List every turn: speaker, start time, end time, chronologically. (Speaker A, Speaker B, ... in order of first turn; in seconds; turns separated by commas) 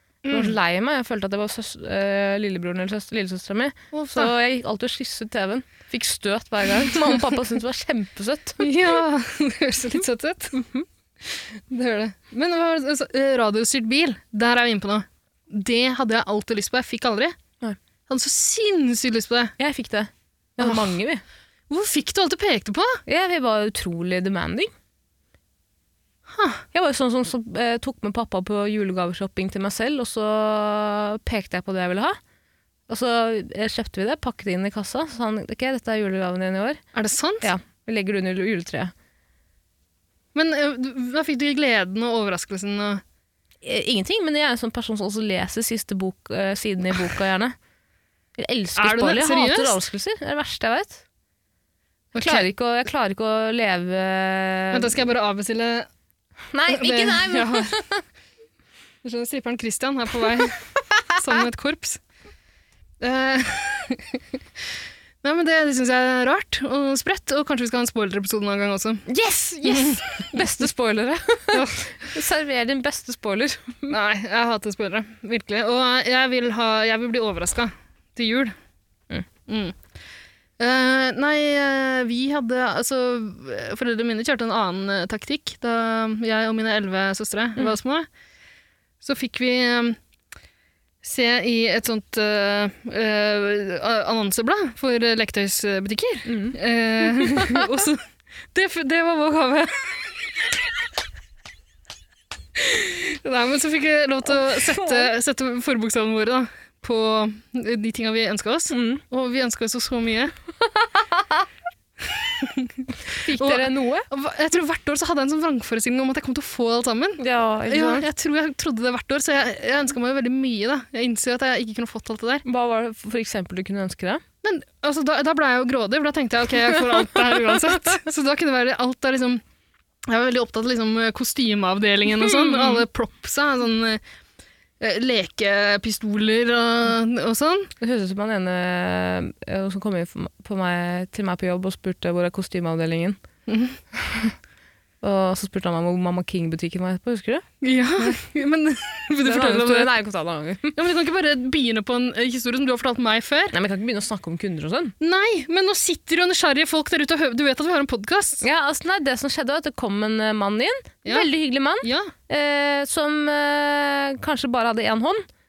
Speaker A: 0.2-0.6, Speaker B: 0.3-8.7, Speaker A: 3.9-4.3, Speaker A: 8.6-10.6, Speaker B: 10.6-10.8, Speaker A: 11.7-17.4, Speaker A: 18.1-19.6, Speaker B: 19.6-21.2, Speaker A: 20.6-20.9, Speaker A: 21.7-23.0, Speaker B: 23.1-24.7, Speaker A: 26.3-26.6, Speaker B: 26.7-32.2, Speaker B: 32.9-36.8, Speaker A: 36.9-37.5, Speaker B: 37.4-38.9, Speaker A: 40.4-43.0, Speaker B: 43.6-47.5, Speaker B: 48.4-51.0, Speaker A: 48.8-49.8, Speaker A: 52.1-52.5, Speaker B: 52.2-55.0, Speaker A: 54.7-55.9, Speaker B: 56.5-58.0, Speaker A: 56.7-57.7, Speaker A: 59.0-60.6, Speaker A: 61.1-62.0, Speaker A: 63.0-64.2, Speaker A: 65.2-69.1, Speaker B: 69.1-74.0, Speaker A: 69.7-70.0, Speaker A: 71.5-71.8, Speaker A: 73.9-78.5, Speaker A: 79.5-79.8, Speaker A: 80.6-88.1, Speaker A: 89.0-90.0, Speaker A: 91.0-98.0, Speaker B: 96.3-96.6, Speaker B: 97.2-97.6, Speaker A: 98.5-100.1, Speaker A: 102.6-110.3, Speaker B: 104.4-105.1, Speaker B: 108.7-109.0, Speaker A: 112.2-112.7, Speaker B: 113.1-114.1, Speaker A: 113.3-122.4, Speaker B: 117.2-118.1, Speaker B: 122.5-124.2, Speaker A: 124.4-129.4, Speaker A: 130.1-134.0, Speaker B: 132.1-132.8, Speaker A: 134.8-137.7, Speaker B: 137.8-143.2, Speaker A: 143.5-143.8, Speaker B: 144.0-144.3, Speaker B: 145.0-147.4, Speaker A: 147.6-149.9, Speaker B: 149.2-150.8, Speaker A: 150.8-153.6, Speaker B: 153.5-154.9, Speaker A: 155.0-158.4, Speaker B: 158.4-165.3, Speaker A: 161.8-162.1